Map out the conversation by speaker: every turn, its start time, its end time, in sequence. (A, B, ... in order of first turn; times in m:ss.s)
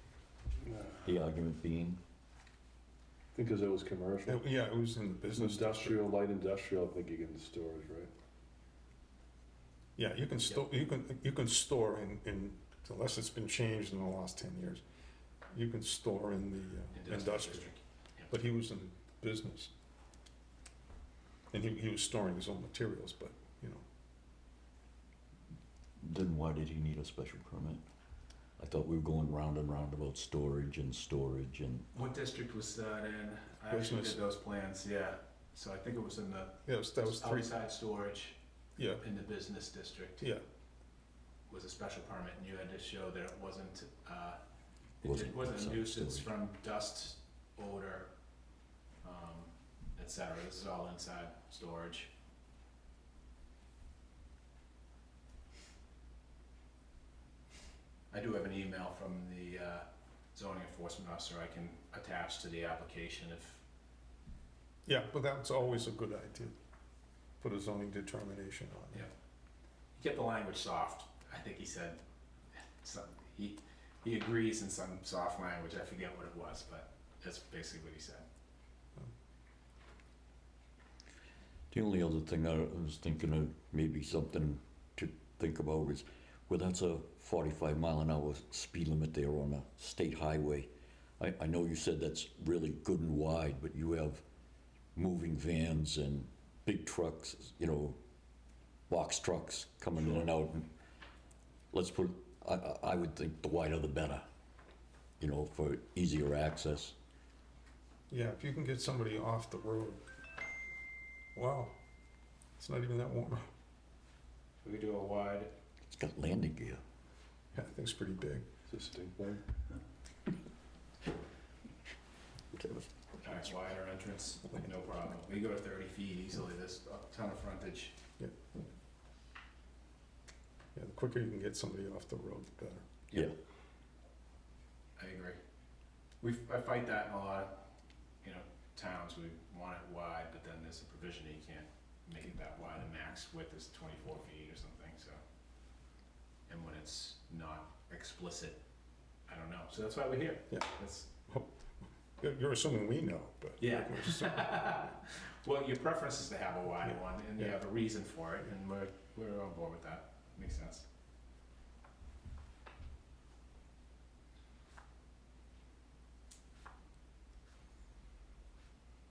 0:00.7-0:01.0 A
0:01.0-0:02.0 B
0:03.3-0:04.4 A
0:04.3-0:06.0 C
0:05.3-0:08.1 A
0:10.0-0:14.8 C
0:15.5-0:17.7 C
0:16.9-0:18.3 D
0:18.3-0:19.7 C
0:21.5-0:23.8 C
0:26.0-0:27.8 B
0:28.6-0:31.9 B
0:31.9-0:38.4 D
0:33.7-0:34.2 C
0:36.7-0:37.5 C
0:38.8-0:39.0 C
0:39.0-0:40.2 D
0:41.5-0:44.4 D
0:45.0-0:48.1 D
0:45.0-0:46.3 B
0:49.0-0:52.1 D
0:58.1-1:03.6 D
1:04.8-1:06.5 C
1:07.4-1:09.0 C
1:09.9-1:12.0 D
1:12.6-1:18.2 D
1:21.7-1:34.2 B
1:34.9-1:38.0 B
1:38.9-1:40.7 B
1:41.7-1:44.2 B
1:45.2-1:46.9 B
1:48.1-1:50.0 C
1:51.3-1:51.8 C
1:52.6-1:53.5 C
1:54.6-1:55.5 D
1:55.9-1:56.8 B
1:57.5-1:58.4 C
1:58.7-1:59.4 A
2:02.5-2:02.8 B
2:03.2-2:08.0 D
2:10.8-2:12.9 C
2:15.0-2:15.4 D
2:16.2-2:17.6 D
2:18.2-2:25.2 D
2:26.5-2:28.6 D
2:29.3-2:31.1 D
2:31.3-2:31.5 C
2:32.2-2:34.8 C
2:33.6-2:40.9 D